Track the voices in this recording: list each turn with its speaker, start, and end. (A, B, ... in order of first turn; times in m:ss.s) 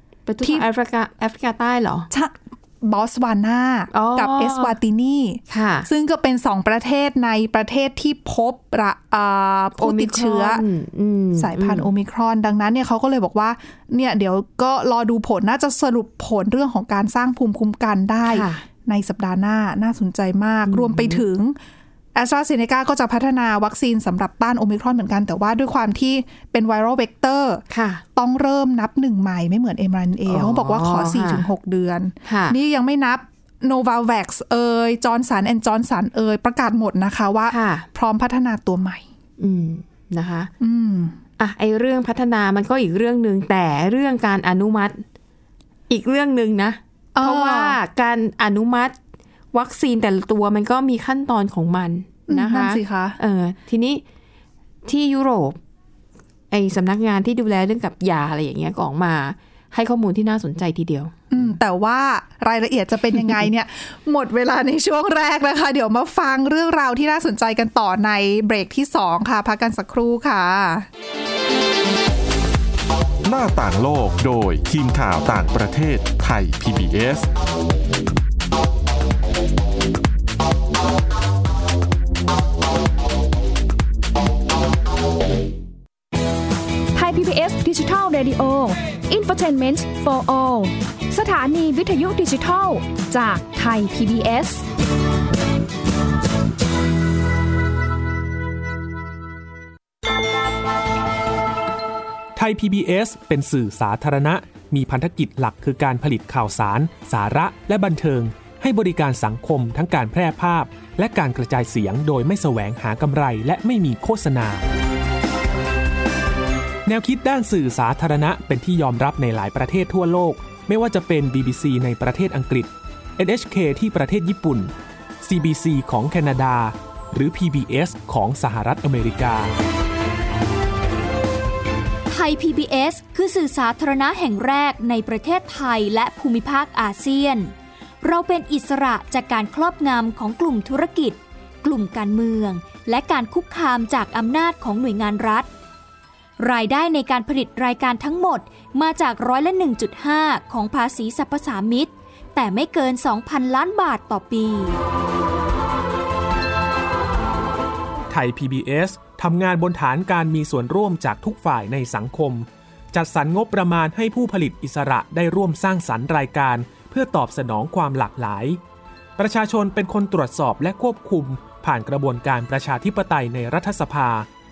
0:00.3-0:02.1 A
0:00.4-0:00.7 B
0:02.1-0:10.6 B
0:03.9-0:04.7 A
0:05.5-0:05.9 A
0:09.8-0:11.9 A
0:11.4-0:21.6 B
0:18.2-0:18.6 A
0:20.7-0:21.2 A
0:22.1-0:27.6 B
0:27.7-0:28.0 A
0:28.1-0:39.0 B
0:30.3-0:31.5 A
0:32.2-0:32.6 A
0:37.5-0:37.9 A
0:39.4-0:40.5 A
0:40.6-0:41.2 B
0:41.4-0:45.0 A
0:45.9-0:48.9 A
0:47.1-0:47.8 B
0:49.5-0:54.0 A
0:52.3-0:53.2 B
0:54.8-0:55.6 A
0:56.5-1:01.2 A
1:01.3-1:10.9 B
1:13.2-1:17.3 C
1:26.9-1:34.7 D
1:42.4-1:54.7 E
1:56.8-2:09.5 E
2:12.1-2:25.5 F
2:26.4-2:34.8 F
2:38.1-2:48.6 E
2:49.2-2:54.3 E